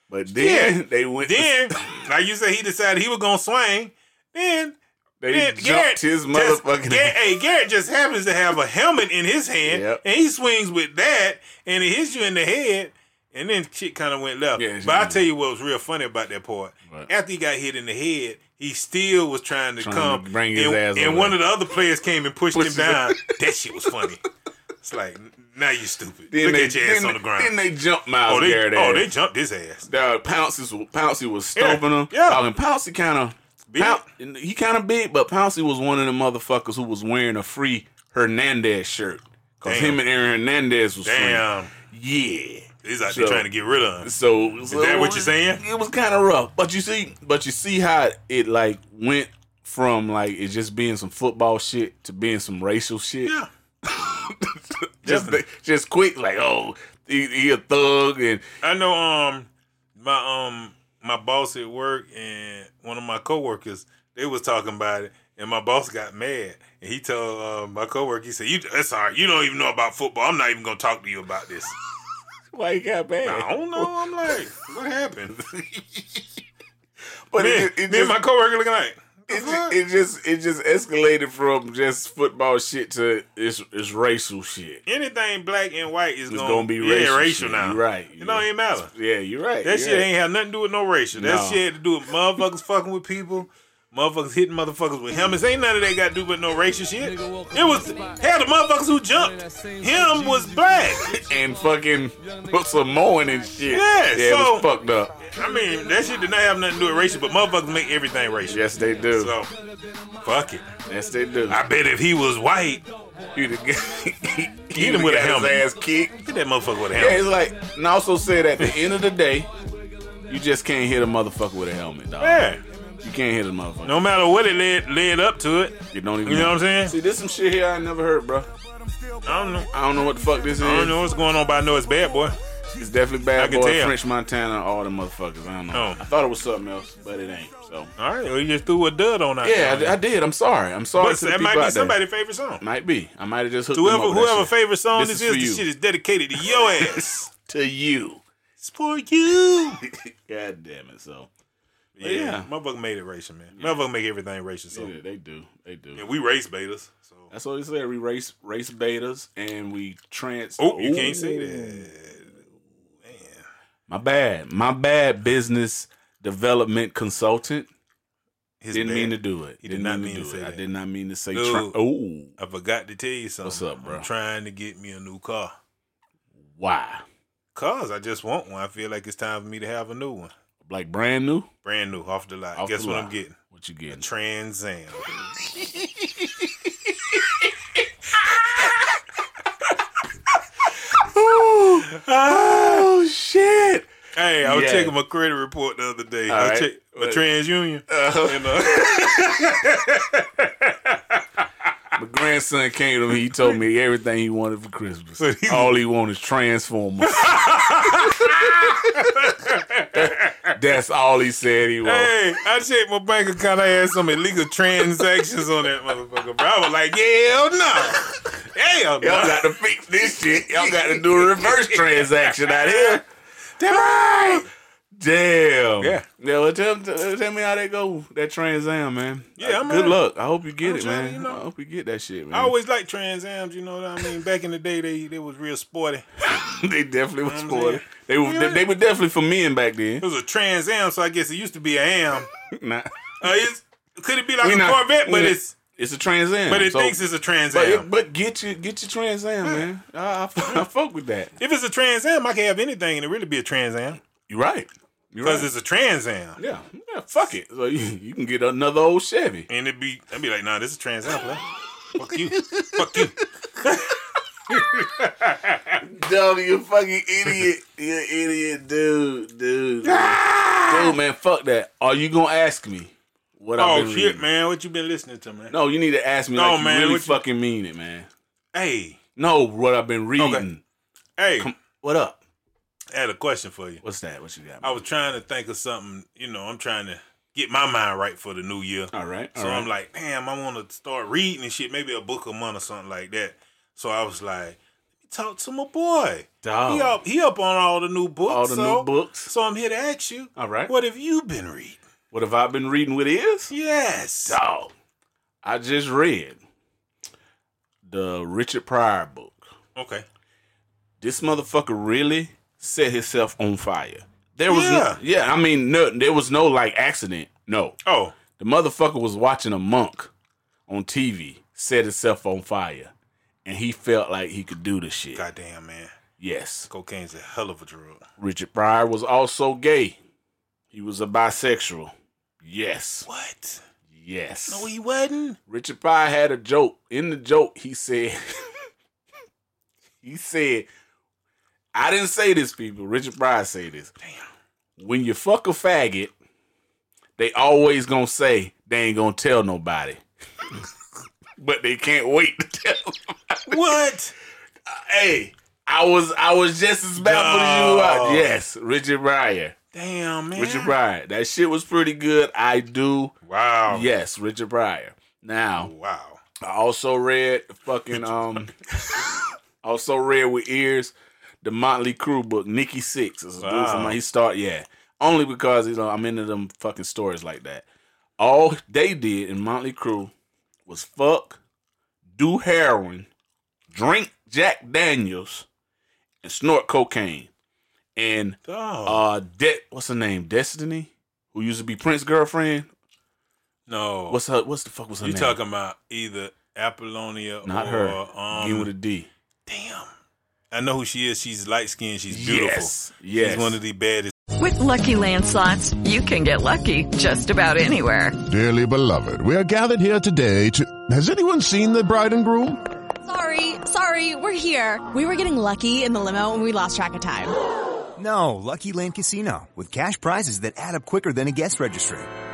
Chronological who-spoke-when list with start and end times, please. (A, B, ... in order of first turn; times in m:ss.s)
0:00.1-0:02.0 A
0:00.4-0:04.7 B
0:05.2-0:07.2 A
0:05.3-0:24.2 B
0:09.6-0:10.0 A
0:14.6-0:15.2 A
0:19.8-0:21.4 A
0:22.5-0:23.3 A
0:24.8-0:27.5 B
0:26.3-0:29.1 A
0:28.3-0:29.9 B
0:29.9-0:43.5 A
0:31.6-0:32.4 B
0:33.7-0:34.0 B
0:39.6-0:40.0 B
0:41.0-0:41.7 B
0:42.8-0:44.1 B
0:44.0-0:58.4 A
0:44.7-0:45.6 B
0:55.0-0:55.4 B
0:58.6-1:11.8 B
1:12.5-1:13.9 A
1:13.2-1:15.3 B
1:15.3-1:16.4 A
1:17.3-1:18.2 A
1:17.4-1:19.8 B
1:19.3-1:24.8 A
1:24.8-1:28.9 B
1:26.3-1:30.1 A
1:29.6-1:41.1 B
1:31.1-1:31.6 A
1:41.1-1:45.2 A
1:43.7-1:44.7 B
1:45.3-1:49.5 B
1:48.4-1:49.4 A
1:50.2-1:50.6 B
1:50.8-1:51.6 A
1:51.5-1:52.8 B
1:53.3-1:56.2 A
1:54.7-1:55.6 B
1:56.2-1:57.2 B
1:56.9-1:59.5 A
2:00.3-2:04.0 A
2:02.2-2:02.6 B
2:03.8-2:06.9 B
2:05.9-2:08.5 A
2:09.2-2:09.7 B
2:09.7-2:11.0 A
2:10.6-2:12.4 B
2:12.8-2:17.9 A
2:13.4-2:14.0 B
2:15.7-2:16.0 B
2:18.0-2:20.0 B
2:19.4-2:22.0 A
2:21.0-2:22.6 B
2:22.6-2:25.6 A
2:23.7-2:27.3 B
2:26.4-2:28.2 A
2:28.6-2:29.8 B
2:29.8-2:31.3 A
2:32.0-2:34.9 B
2:32.0-2:32.5 A
2:33.5-2:33.8 A
2:34.7-2:36.1 A
2:36.0-2:37.3 B
2:37.3-2:41.9 A
2:40.6-2:42.4 B
2:43.0-2:43.4 B
2:43.9-2:47.7 A
2:48.6-2:50.6 B
2:48.7-2:52.3 A
2:51.3-2:51.8 B
2:52.4-2:55.5 B
2:53.4-2:54.1 A
2:56.4-2:57.0 A
2:57.5-3:00.3 B
3:00.6-3:01.5 A
3:01.6-3:03.4 B
3:02.6-3:04.0 A
3:03.9-3:05.1 B
3:05.4-3:09.0 A
3:10.6-3:13.9 A
3:14.2-3:20.7 B
3:14.4-3:14.9 A
3:16.3-3:17.2 A
3:17.9-3:19.2 A
3:21.9-3:29.0 A
3:25.2-3:25.7 B
3:27.0-3:30.6 B
3:29.9-3:32.1 A
3:31.8-3:39.5 B
3:39.0-3:43.0 A
3:40.1-3:43.0 B
3:43.6-3:44.5 B
3:43.6-3:52.5 A
3:45.8-3:46.0 B
3:49.4-3:50.0 B
3:50.6-3:51.4 B
3:52.3-3:56.0 B
3:56.2-4:00.0 A
3:57.2-3:58.6 B
4:00.0-4:02.3 B
4:02.5-4:02.9 A
4:03.2-4:05.5 B
4:04.4-4:07.0 A
4:06.5-4:07.9 B
4:07.5-4:11.3 A
4:11.4-4:14.0 B
4:14.3-4:15.5 A
4:15.2-4:16.4 B
4:16.4-4:19.5 A
4:19.5-4:21.4 B
4:22.0-4:24.0 B
4:22.3-4:23.1 A
4:24.5-4:25.8 B
4:25.8-4:34.2 A
4:29.8-4:31.0 B
4:33.6-4:35.5 B
4:35.5-4:38.1 A
4:36.3-4:37.2 B
4:38.5-4:39.0 B
4:39.2-4:40.6 A
4:40.2-4:40.4 B
4:41.2-4:41.5 B
4:41.3-4:42.2 A
4:42.9-4:43.8 B
4:43.8-4:44.8 A
4:44.6-5:01.8 B
4:48.9-4:49.7 A
4:56.4-4:57.0 A
4:58.3-4:59.3 A
5:00.4-5:00.7 A
5:02.1-5:03.5 A
5:03.5-5:04.4 B
5:04.2-5:04.7 A
5:05.4-5:06.4 A
5:07.8-5:09.5 A
5:09.8-5:10.0 B
5:11.0-5:17.8 A
5:14.5-5:15.0 B
5:17.8-5:18.2 B
5:18.3-5:20.1 A
5:20.7-5:22.9 A
5:23.4-5:25.2 A
5:25.1-5:25.9 B
5:26.2-5:26.7 A
5:26.7-5:28.0 B
5:28.2-5:30.0 A
5:30.7-5:33.1 A
5:33.1-5:33.6 B
5:33.9-5:34.7 A
5:34.5-5:35.4 B
5:35.5-5:38.6 A
5:40.0-5:40.7 A
5:41.7-5:43.9 A
5:44.8-5:46.1 A
5:47.2-5:50.0 A
5:51.4-5:53.8 A
5:53.5-5:54.1 B
5:54.6-5:59.6 A
5:57.0-5:58.3 B
5:59.7-6:00.7 B
6:00.3-6:03.1 A
6:03.2-6:03.9 B
6:03.7-6:05.7 A
6:05.6-6:06.2 B
6:06.4-6:17.6 A
6:13.4-6:14.0 B
6:18.2-6:20.1 A
6:20.6-6:21.4 A
6:22.1-6:23.1 A
6:23.7-6:25.4 A
6:26.2-6:27.3 A
6:28.0-6:32.7 A
6:28.5-6:29.0 B
6:33.7-6:34.2 B
6:34.1-6:35.4 A
6:35.0-6:38.7 B
6:37.4-6:39.1 A
6:39.5-6:39.9 B
6:40.5-6:44.1 B
6:42.1-6:43.6 A
6:44.4-6:48.2 C
6:48.2-6:52.6 D
6:53.0-6:57.3 E
6:58.0-7:02.1 F